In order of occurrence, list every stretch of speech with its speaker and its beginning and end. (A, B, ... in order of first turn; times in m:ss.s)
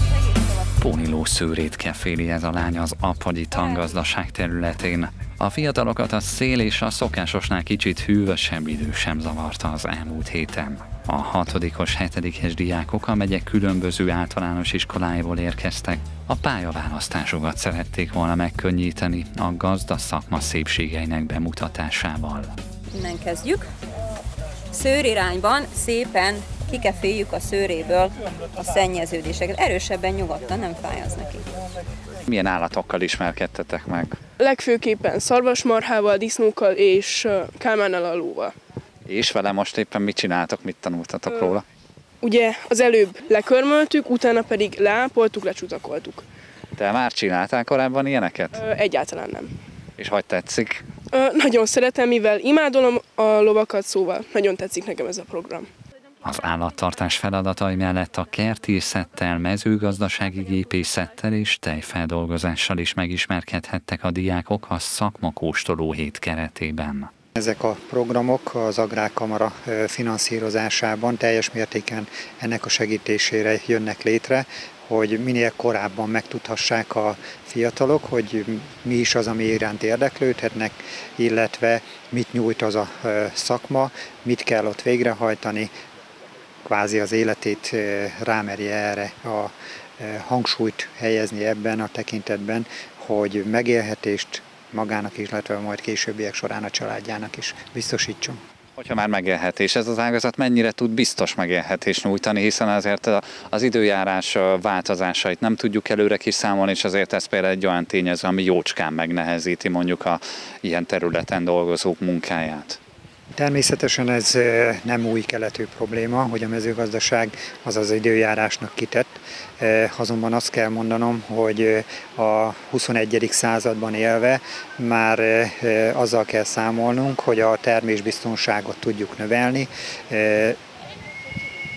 0:00.8-0:22.6 A
0:22.9-0:23.7 B
0:24.7-0:31.5 B
0:32.3-0:34.2 A
0:34.4-0:38.6 C
0:39.1-0:41.6 A
0:42.2-0:46.3 C
0:46.8-0:48.6 A
0:48.6-0:49.5 C
0:50.0-0:50.8 A
0:51.1-0:55.7 C
0:56.2-1:07.1 A
1:07.4-1:25.7 D
1:26.6-1:38.4 D
1:38.8-1:52.8 A
1:53.4-2:10.6 D